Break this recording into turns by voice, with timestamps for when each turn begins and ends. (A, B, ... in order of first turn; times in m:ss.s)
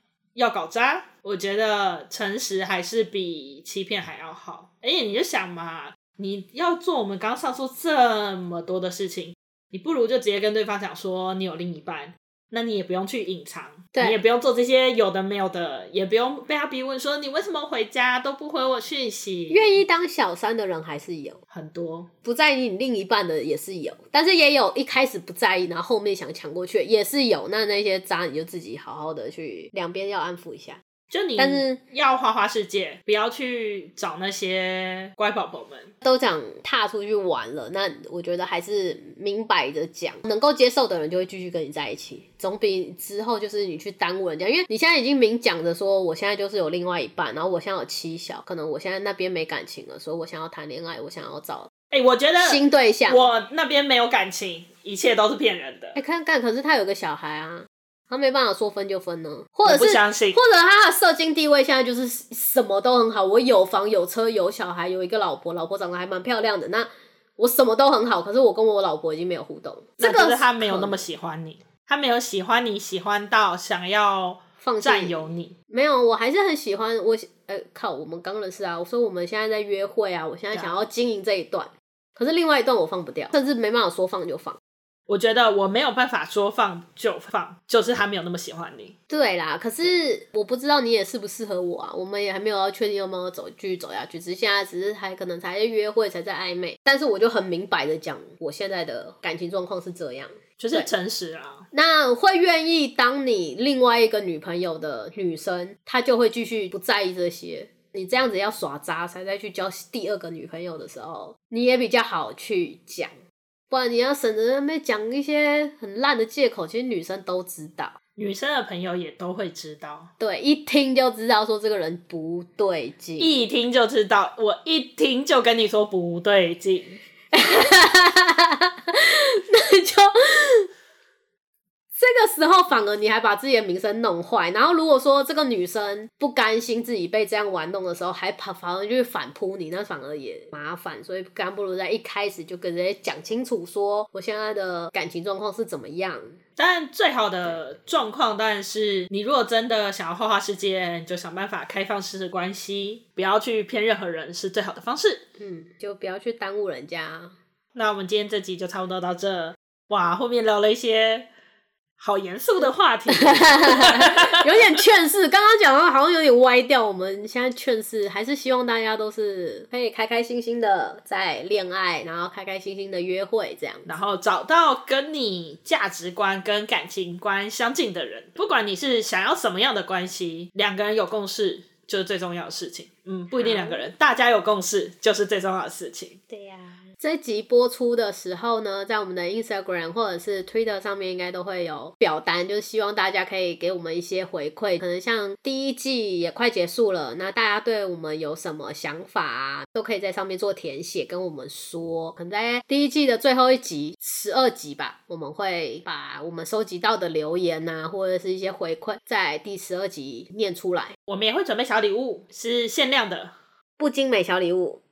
0:00.3-0:19.8 A
0:19.5-0:21.4 B
0:21.5-0:22.1 A
0:22.2-0:30.8 B
0:31.1-0:35.9 A
0:31.4-0:31.8 B
0:36.0-0:51.7 B
0:51.9-0:56.0 A
0:52.4-0:53.3 B
0:55.9-1:11.0 B
0:59.6-1:00.4 A
1:10.0-1:15.5 A
1:14.6-1:24.6 B
1:20.5-1:20.8 A
1:25.1-1:28.9 A
1:29.1-1:40.9 B
1:40.6-1:41.7 A
1:41.7-1:53.1 B
1:53.7-1:58.0 B
1:58.2-2:00.1 A
2:00.2-2:03.4 B
2:03.2-2:07.0 A
2:07.3-2:10.7 B
2:12.0-2:26.4 B
2:26.6-2:35.2 A
2:35.4-2:37.3 B
2:37.7-2:41.3 A
2:42.0-2:44.4 A
2:43.1-2:53.9 B
2:53.8-3:06.2 A
3:03.3-3:03.8 B
3:06.3-3:31.0 B
3:31.1-3:33.3 A
3:33.8-3:34.8 B